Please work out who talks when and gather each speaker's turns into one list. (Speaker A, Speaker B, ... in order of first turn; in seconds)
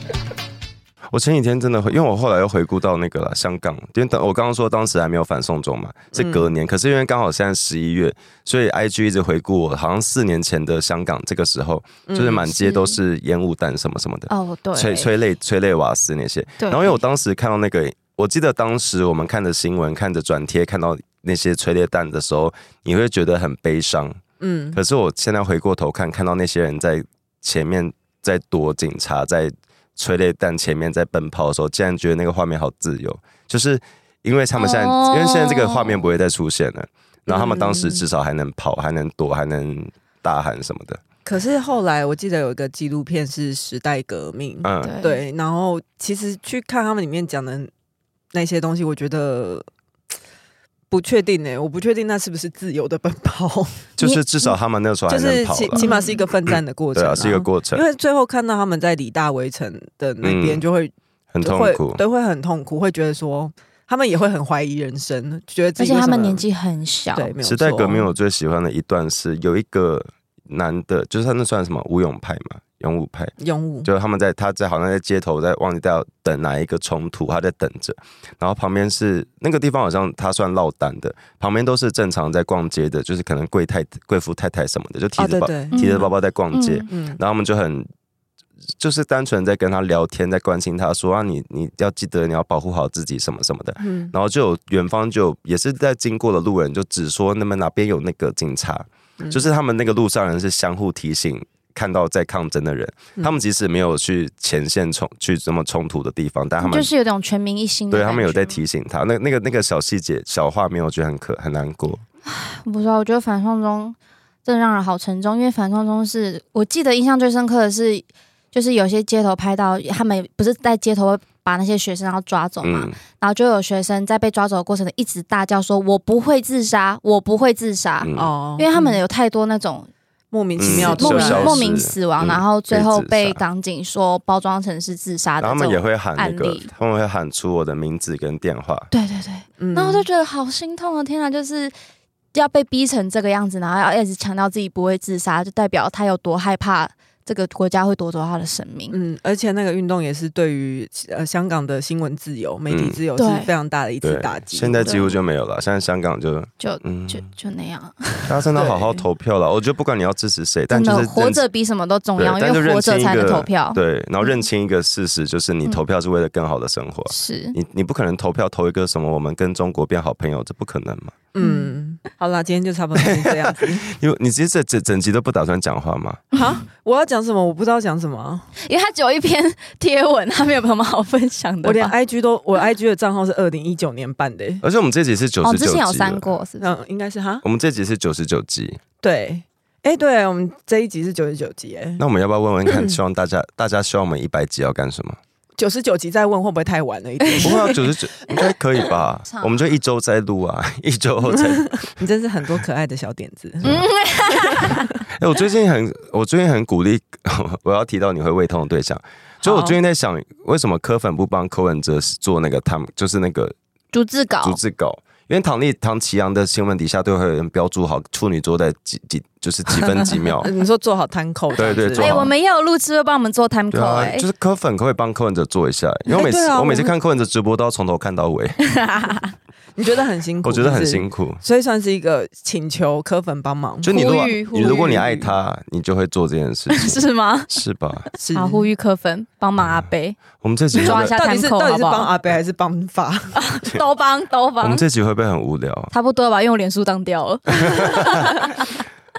Speaker A: 1.1-24.2, 24.7-41.0, 44.6-44.9, 54.0-55.9, 57.0-57.8, 60.2-60.6, 61.3-62.0, 67.4-87.9, 88.8-106.9, 107.9-112.0, 122.6-123.0, 128.0-128.3, 130.6-133.4, 135.4-138.9, 152.7-153.0, 154.0-157.2, 158.3-161.4, 162.2-171.1, 173.0-176.2, 184.6-186.3, 187.4-188.8, 192.0-195.2, 197.4-201.9, 205.2-213.5, 214.4-220.5, 221.6-222.3, 223.7-228.6, 230.4-231.4, 233.8-238.1, 240.4-241.2, 244.6-245.9
Speaker B: 6.1-6.5, 12.1-12.5, 24.4-24.8, 37.3-38.0, 41.2-47.7, 48.3-49.7, 50.9-53.9, 55.1-66.4, 67.1-68.1, 73.4-73.9, 85.2-85.9, 86.9-87.2, 93.8-94.1, 128.2-129.0, 130.3-131.6, 139.6-140.1, 148.9-155.1, 158.6-159.0, 171.3-173.9, 176.3-178.5, 181.6-184.6, 186.6-187.4, 189.0-192.0, 192.7-193.0, 195.6-197.8, 201.9-203.7, 204.5-204.8, 209.4-209.8, 220.4-222.3, 226.1-226.9, 229.8-235.4, 238.2-238.7, 240.8-243.4
Speaker C: 12.6-13.0, 14.3-15.1, 16.6-17.0, 34.6-36.1, 44.8-45.2, 54.0-54.5, 55.8-56.2, 65.8-67.3, 85.7-86.9, 106.6-108.6, 112.2-129.9, 130.7-136.7, 138.9-141.7, 142.3-149.0, 153.2-153.5, 154.8-155.2, 156.6-158.4, 160.7-164.4, 167.1-167.6, 171.4-171.7, 178.6-181.9, 185.4-186.7, 199.3-199.6, 203.6-204.9, 213.9-214.6, 222.0-224.3, 228.6-229.3, 233.9-235.0, 236.7-237.5, 238.3-240.2, 240.7-242.1, 243.4-244.8, 245.9-248.7